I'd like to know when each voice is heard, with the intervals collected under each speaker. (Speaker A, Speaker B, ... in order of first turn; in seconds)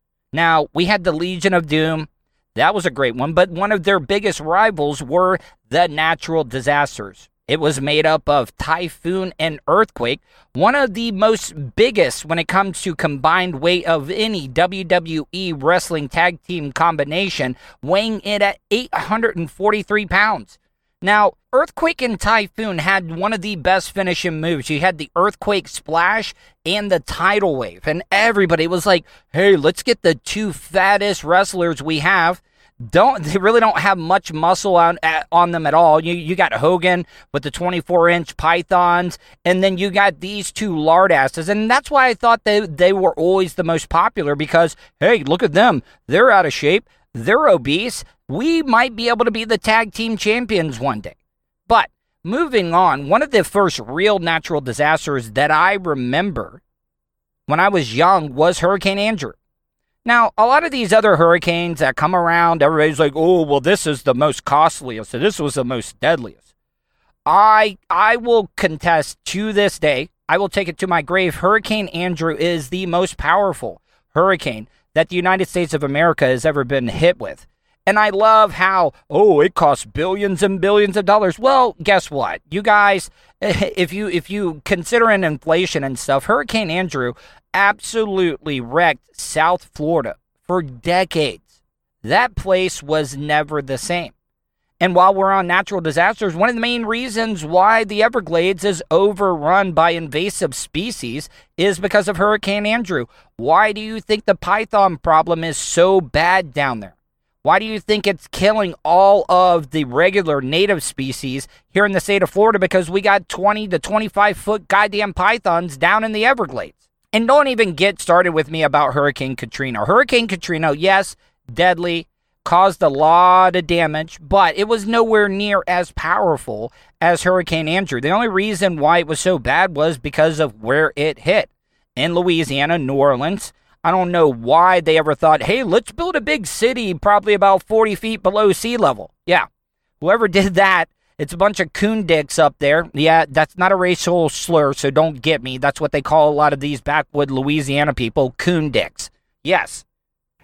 Speaker A: 0.3-51.1, 51.7-56.6, 57.5-59.4, 60.0-66.4, 67.3-91.5, 92.0-94.1, 94.8-139.5, 140.0-149.8